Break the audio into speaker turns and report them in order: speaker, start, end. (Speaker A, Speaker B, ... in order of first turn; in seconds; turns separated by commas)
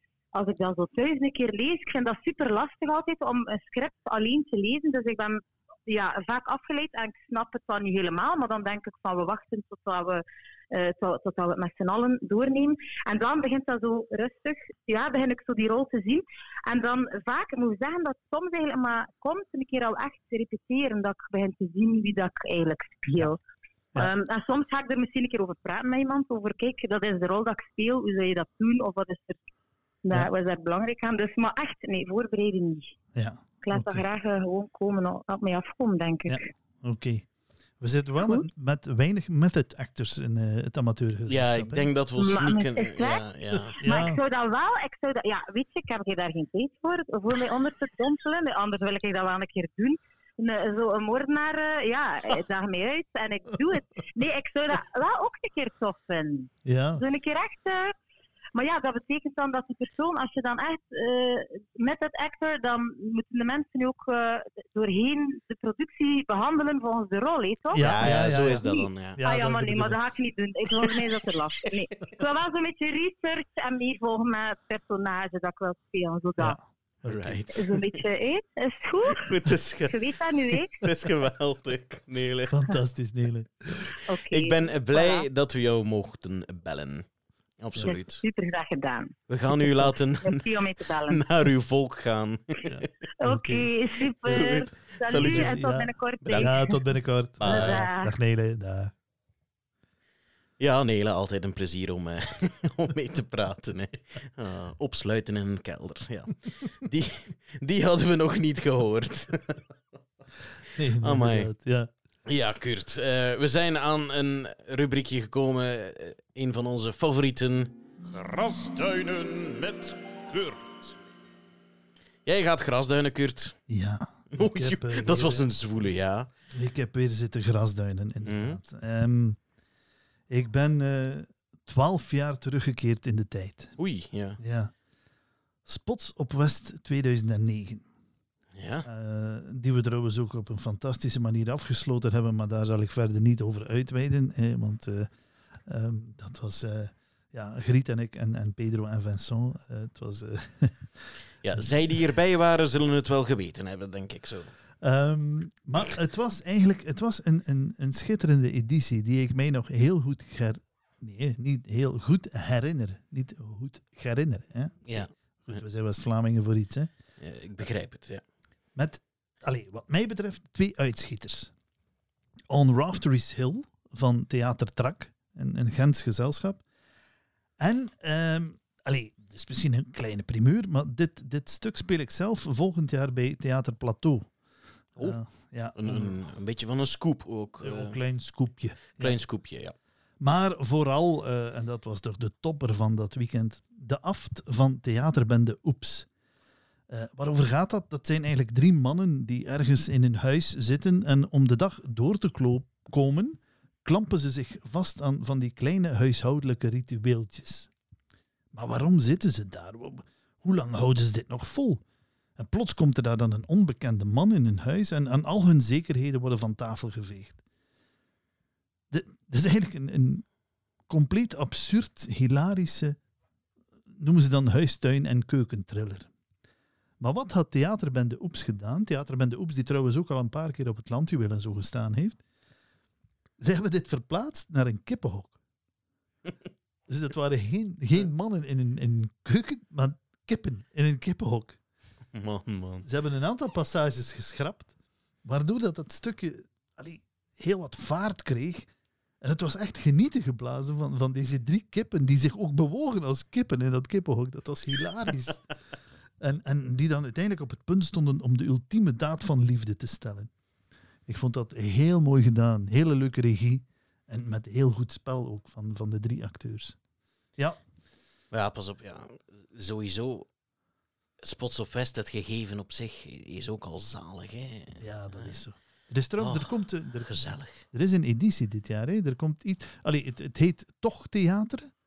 Speaker A: 0.3-23.4, Speaker A: 24.0-29.4, Speaker A: 30.0-32.9, Speaker B: 33.1-34.0, Speaker A: 33.6-36.4, Speaker B: 36.3-37.3, Speaker B: 37.8-41.9, Speaker A: 38.2-38.5, Speaker C: 41.3-43.8, Speaker A: 42.2-43.2, Speaker A: 43.8-57.9, Speaker B: 43.8-44.2, Speaker B: 56.6-57.0, Speaker A: 58.5-76.6, Speaker B: 67.7-68.6, Speaker C: 67.8-69.2, Speaker B: 69.2-70.0, Speaker B: 76.4-77.4, Speaker C: 77.0-78.0, Speaker A: 77.5-80.8, Speaker C: 79.1-82.6, Speaker B: 82.5-83.9, Speaker A: 84.0-85.3, Speaker C: 84.3-87.1, Speaker C: 87.6-88.2, Speaker A: 87.8-91.2, Speaker C: 89.3-90.5, Speaker C: 91.1-92.9, Speaker B: 92.7-93.7, Speaker A: 93.2-96.8, Speaker C: 94.3-95.6, Speaker B: 95.1-98.9, Speaker C: 96.3-96.6, Speaker C: 97.4-97.9, Speaker A: 97.5-98.1, Speaker C: 100.6-109.6, Speaker B: 110.8-111.9, Speaker C: 111.0-111.5, Speaker C: 112.3-120.9, Speaker C: 122.2-123.6, Speaker B: 123.7-125.5, Speaker C: 124.3-126.3, Speaker B: 126.5-129.4, Speaker C: 128.2-128.6, Speaker B: 130.3-133.8, Speaker C: 133.8-134.4, Speaker B: 134.4-134.7, Speaker B: 135.7-137.9, Speaker C: 138.6-138.9, Speaker B: 138.9-145.1, Speaker B: 145.7-151.6, Speaker C: 151.4-154.5, Speaker B: 154.8-166.9, Speaker C: 164.8-165.6, Speaker C: 167.2-168.2, Speaker B: 168.8-171.5, Speaker B: 172.5-176.6, Speaker B: 177.6-184.3, Speaker B: 185.0-186.2, Speaker C: 185.8-188.0, Speaker B: 187.6-189.2, Speaker C: 189.0-189.8, Speaker B: 190.2-196.1, Speaker B: 196.9-207.7, Speaker B: 208.5-211.8, Speaker B: 212.4-217.4, Speaker B: 218.9-220.3, Speaker B: 220.9-223.0, Speaker B: 224.0-226.1, Speaker B: 227.0-232.2, Speaker B: 233.4-235.4, Speaker B: 236.9-241.6, Speaker C: 242.1-242.9, Speaker B: 242.8-244.7, Speaker B: 245.2-248.7, Speaker B: 249.2-255.4, Speaker B: 256.2-260.3, Speaker B: 261.1-266.8, Speaker C: 268.3-270.3, Speaker C: 271.2-275.4, Speaker B: 274.8-281.7, Speaker C: 276.2-277.6